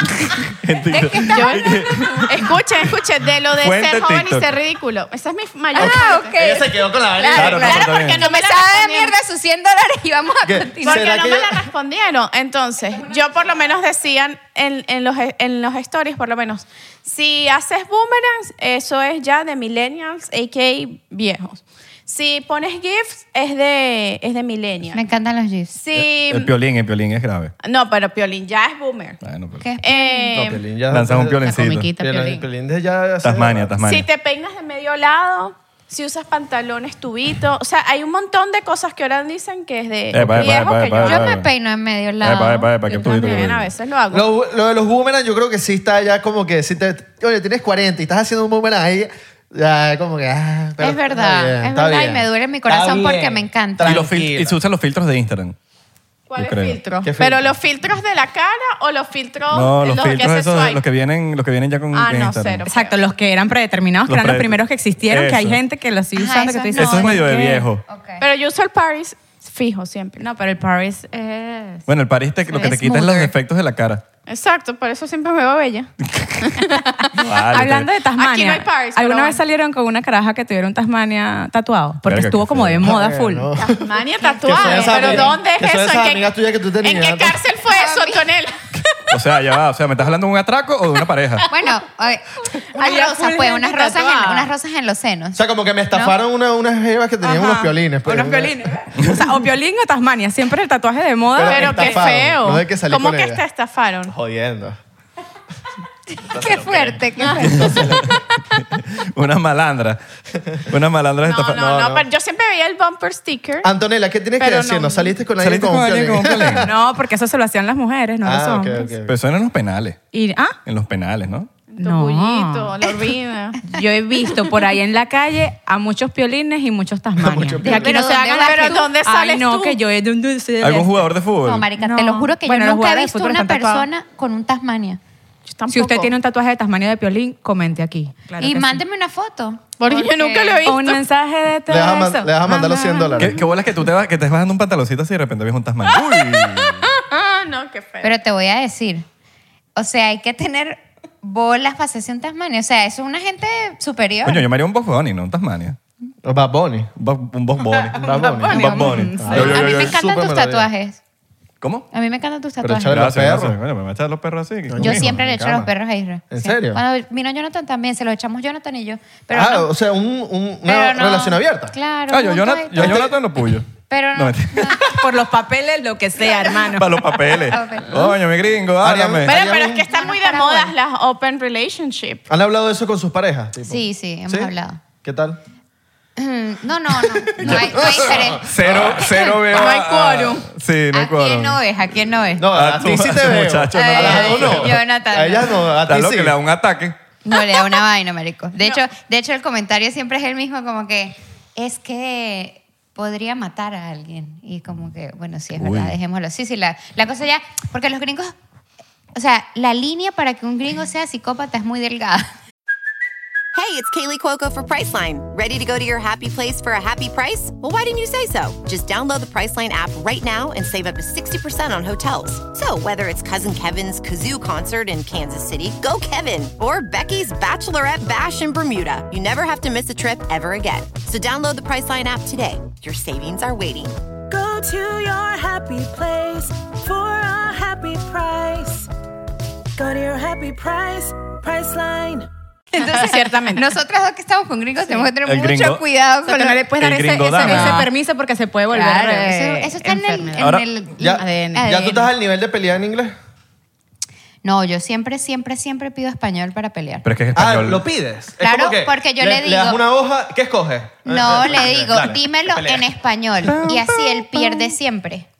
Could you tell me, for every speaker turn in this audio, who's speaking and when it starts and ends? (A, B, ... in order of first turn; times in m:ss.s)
0:00.3-0:02.9 A
0:00.9-0:01.8 B
0:01.3-0:06.4 C
0:03.5-0:04.5 A
0:05.7-0:11.1 B
0:05.8-0:07.9 D
0:07.3-0:08.2 A
0:07.5-0:09.2 C
0:10.4-0:11.6 D
0:10.8-0:25.0 C
0:24.9-0:25.8 B
0:25.8-0:26.5 C
0:25.9-0:27.5 A
0:27.6-0:29.2 C
0:29.2-0:29.7 A
0:29.6-0:30.4 B
0:29.8-0:30.6 C
0:30.3-0:33.8 D
0:30.9-0:31.9 A
0:31.4-0:32.4 E
0:33.2-0:34.1 A
0:33.8-0:41.3 C
0:40.1-0:41.5 A
0:40.2-0:40.5 D
0:41.0-0:42.7 B
0:42.2-0:43.7 A
0:42.9-0:44.3 C
0:44.1-0:54.6 D
0:50.8-0:54.1 B
0:53.8-0:55.6 A
0:56.3-1:00.8 C
0:56.4-0:56.8 A
0:57.0-0:57.5 D
0:59.5-1:02.7 A
1:01.9-1:03.0 C
1:02.7-1:07.6 E
1:04.1-1:05.6 A
1:06.2-1:07.3 B
1:06.7-1:07.8 A
1:07.9-1:08.2 B
1:08.2-1:10.2 C
1:10.2-1:11.9 E
1:11.9-1:14.0 A
1:12.5-1:13.2 E
1:12.7-1:13.2 B
1:14.3-1:15.9 C
1:16.0-1:16.6 A
1:16.6-1:16.9 C
1:17.1-1:23.5 E
1:17.1-1:17.9 A
1:18.2-1:19.4 C
1:22.0-1:22.9 A
1:22.8-1:23.9 D
1:23.6-1:26.3 C
1:24.4-1:27.4 D
1:26.8-1:29.0 C
1:27.7-1:28.3 B
1:29.1-1:31.5 A
1:31.5-1:35.4 B
1:32.7-1:34.0 E
1:32.8-1:34.4 C
1:35.3-1:38.6 D
1:37.2-1:42.0 E
1:41.3-1:43.4 D
1:41.4-1:44.1 C
1:44.1-1:44.8 D
1:46.2-1:48.1 B
1:46.3-1:48.2 D
1:47.4-1:50.0 A
1:50.7-1:51.6 A
1:51.2-1:53.7 C
1:51.5-1:52.0 D
1:53.6-1:56.7 D
1:54.4-1:55.2 C
1:55.4-1:56.7 A
1:56.6-1:58.9 E
1:58.2-1:59.2 D
1:59.0-2:00.0 A
2:00.1-2:00.6 E
2:00.6-2:01.5 A
2:01.7-2:03.6 C
2:01.8-2:02.7 E
2:03.7-2:11.1 E
2:07.2-2:08.0 D
2:07.6-2:08.9 B
2:08.2-2:09.8 C
2:10.6-2:11.7 A
2:11.4-2:15.0 B
2:11.8-2:13.8 E
2:15.4-2:16.1 C
2:15.7-2:18.8 E
2:18.4-2:20.7 B
2:19.8-2:21.0 C
2:20.6-2:23.3 E
2:21.7-2:23.4 D
2:23.2-2:26.9 A
2:25.9-2:28.1 C
2:28.0-2:29.0 B
2:29.8-2:34.4 B
2:34.2-2:35.8 A
2:36.2-2:36.9 D
2:37.0-2:40.0 A
2:37.9-2:40.6 D
2:38.0-2:39.4 E
2:39.3-2:41.0 B
2:41.6-2:41.8 A
2:41.9-2:43.0 B
2:42.6-2:43.6 D
2:42.9-2:45.2 A
2:44.7-2:45.7 D
2:44.8-2:49.7 B
2:46.3-2:46.8 D
2:49.3-2:51.8 D
2:50.6-2:53.1 B
2:52.1-2:54.9 A
2:52.8-2:53.1 D
2:53.9-2:54.9 B
2:54.8-2:57.0 E
2:56.2-2:58.2 B
2:56.7-2:59.4 A
2:58.8-2:59.8 D
2:59.2-3:02.2 C
2:59.8-3:00.7 B
3:02.3-3:04.5 D
3:03.6-3:04.8 B
3:05.0-3:05.4 D
3:06.2-3:08.4 B
3:07.3-3:09.7 D
3:07.4-3:11.6 A
3:09.0-3:09.4 B
3:09.5-3:10.5 C
3:10.9-3:12.5 B
3:12.4-3:16.4 D
3:12.4-3:14.7 A
3:13.7-3:15.7 B
3:15.9-3:17.0 A
3:17.2-3:28.3 B
3:25.5-3:25.9 A
3:29.1-3:32.3 B
3:33.5-3:54.0 F
3:54.3-3:58.9 G
3:59.8-4:02.3 G
4:02.7-4:06.6 B
4:02.8-4:03.6 C
4:05.2-4:05.8 A
4:06.2-4:11.8 E
4:06.8-4:07.9 A
4:07.4-4:07.8 B
4:08.7-4:12.1 B
4:10.4-4:10.7 A
4:11.0-4:13.1 D
4:14.4-4:17.0 B
4:17.0-4:17.8 A
4:17.3-4:22.9 D
4:18.4-4:19.8 B
4:21.0-4:25.3 B
4:23.4-4:24.7 A